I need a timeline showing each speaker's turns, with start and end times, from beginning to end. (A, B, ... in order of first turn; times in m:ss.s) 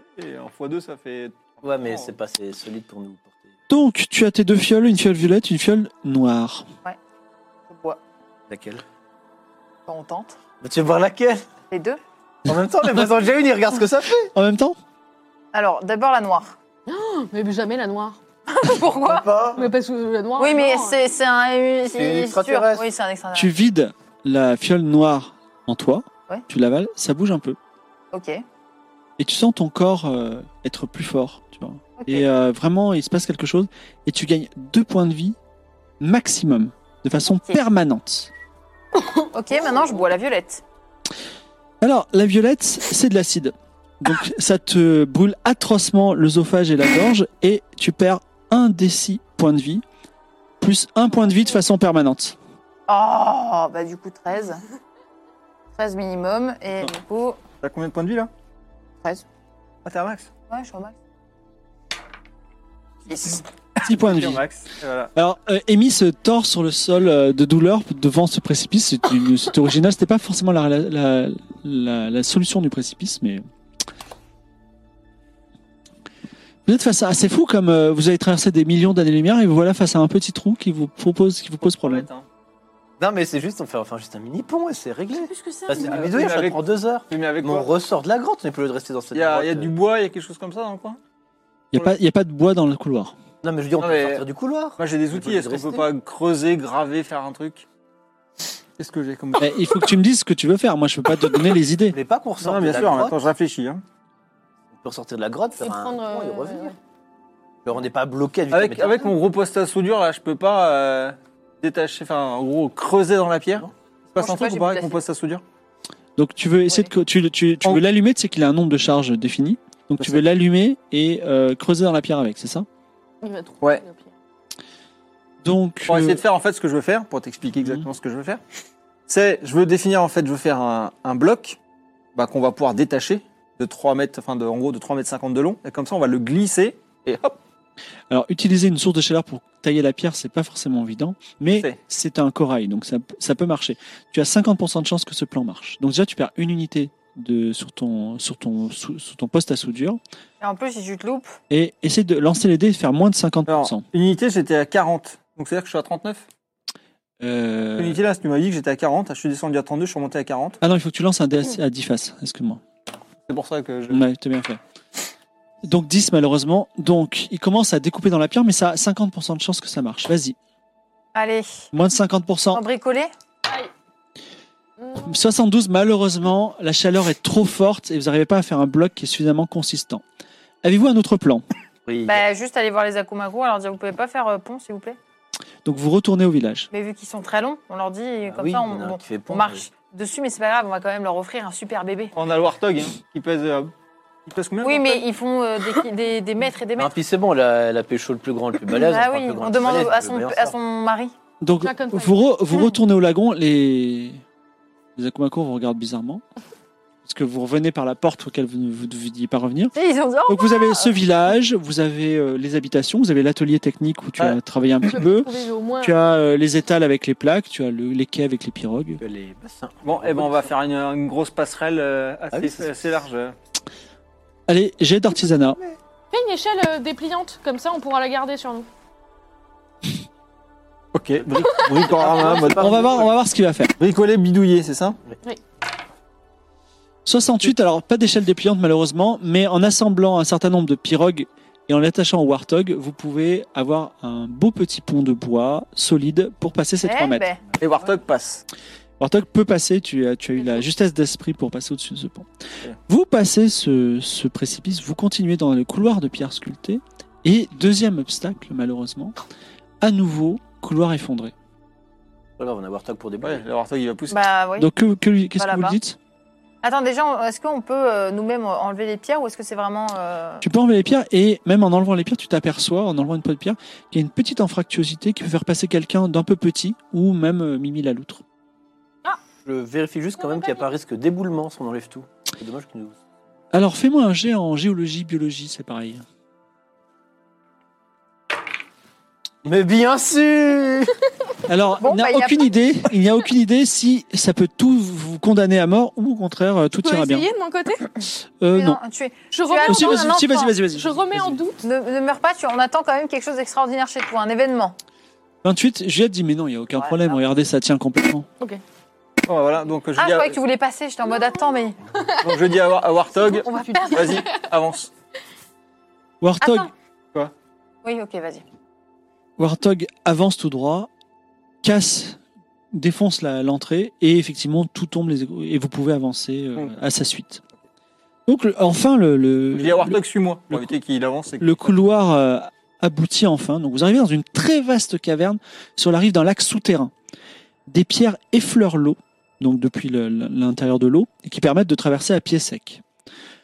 0:00.1-0:02.1 A
0:01.6-0:03.6 B
0:03.7-0:06.6 C
0:07.7-0:08.0 D
0:08.5-0:08.8 B
0:09.9-0:10.4 D
0:10.6-0:11.4 B
0:11.7-0:12.0 D
0:12.5-0:14.3 B
0:14.3-0:14.8 C
0:15.5-0:16.5 D
0:16.9-0:18.2 E
0:18.5-0:19.3 D
0:18.8-0:19.7 B
0:19.5-0:21.0 E
0:20.4-0:23.5 D
0:21.9-0:22.8 B
0:23.3-0:27.6 C
0:28.1-0:28.4 D
0:29.2-0:35.4 C
0:32.0-0:32.2 D
0:36.0-0:38.3 C
0:37.3-0:37.6 D
0:39.3-0:40.6 D
0:41.8-0:49.8 C
0:50.6-0:52.4 C
0:52.9-0:54.6 D
0:55.7-0:57.4 D
0:57.6-0:58.3 A
0:59.8-1:00.3 A
1:00.5-1:01.0 D
1:03.1-1:03.4 D
1:03.8-1:05.1 A
1:03.8-1:04.4 C
1:05.1-1:13.4 C
1:16.6-1:22.1 C
1:21.6-1:22.2 A
1:23.0-1:29.7 B
1:25.1-1:26.2 E
1:25.7-1:27.7 A
1:29.1-1:31.0 A
1:31.7-1:33.1 C
1:33.4-1:35.8 B
1:33.8-1:34.2 A
1:34.8-1:37.6 A
1:38.8-1:39.8 A
1:39.4-1:42.0 C
1:41.9-1:43.2 B
1:42.4-1:43.8 A
1:44.7-1:46.7 B
1:45.6-1:46.8 E
1:47.6-1:49.1 B
1:48.5-1:55.4 A
1:54.2-1:55.0 D
1:56.2-2:02.6 C
2:00.0-2:00.3 A
2:03.2-2:04.1 E
2:05.4-2:06.2 C
2:05.9-2:08.4 A
2:07.6-2:07.8 C
2:09.1-2:11.6 A
2:12.1-2:17.4 A
2:18.1-2:30.0 C
2:30.4-2:31.4 D
2:31.5-2:33.8 C
2:33.5-2:36.2 A
2:37.2-2:38.0 C
2:37.8-2:40.6 A
2:40.6-2:42.6 C
2:43.3-2:44.0 A
2:43.9-2:44.6 C
2:45.6-2:50.4 C
2:51.1-2:51.6 D
2:51.7-2:52.6 C
2:52.5-2:53.1 D
2:54.8-2:55.2 E
2:55.0-3:00.0 C
3:00.6-3:01.4 C
3:01.8-3:02.3 B
3:02.0-3:05.0 D
3:05.6-3:06.7 C
3:06.7-3:12.1 D
3:08.2-3:09.6 B
3:12.1-3:13.7 A
3:14.2-3:15.0 A
3:14.6-3:16.9 D
3:16.8-3:20.6 B
3:18.7-3:21.1 D
3:21.4-3:24.2 C
3:21.6-3:22.2 E
3:25.0-3:26.2 C
3:27.0-3:29.7 C
3:29.7-3:31.0 D
3:30.3-3:39.0 C
3:34.8-3:36.0 E
3:39.0-3:40.5 B
3:39.8-3:43.3 A
3:42.3-3:42.7 B
3:44.5-3:45.6 C
3:46.1-3:48.7 E
3:50.9-3:53.1 A
3:51.2-3:53.1 B
3:51.5-3:51.9 E
3:52.4-3:53.7 C
3:53.8-3:55.0 A
3:57.0-4:07.3 C
4:06.8-4:07.4 D
4:07.6-4:08.4 A
4:09.0-4:12.3 C
4:12.9-4:19.2 C
4:19.8-4:21.3 C
4:22.4-4:23.4 B
4:23.2-4:24.2 A
4:24.1-4:24.7 D
4:24.6-4:26.0 C
4:25.4-4:25.8 D
4:26.6-4:30.4 D
4:30.4-4:38.2 C
4:39.4-4:43.0 B
4:40.2-4:40.7 E
4:43.5-4:46.0 C
4:49.4-4:50.9 B
4:51.5-4:57.3 C
4:51.8-4:52.6 D
4:56.8-4:57.9 E
4:58.4-4:58.8 C
4:58.5-5:00.5 D
4:59.3-5:00.2 E
4:59.6-5:01.4 C
5:00.7-5:01.6 E
5:01.6-5:04.8 D
5:05.4-5:08.3 C
5:06.7-5:07.2 D
5:09.2-5:10.4 A
5:10.0-5:11.8 D
5:11.1-5:12.4 E
5:12.2-5:14.9 A
5:13.3-5:14.4 D
5:13.6-5:14.4 E
5:16.2-5:16.7 C
5:16.4-5:16.7 D
5:17.8-5:18.4 D
5:19.4-5:20.9 C
5:21.6-5:22.2 C
5:22.7-5:27.4 C
5:28.3-5:30.0 C
5:29.5-5:31.7 A
5:31.4-5:36.9 C
5:37.7-5:42.8 C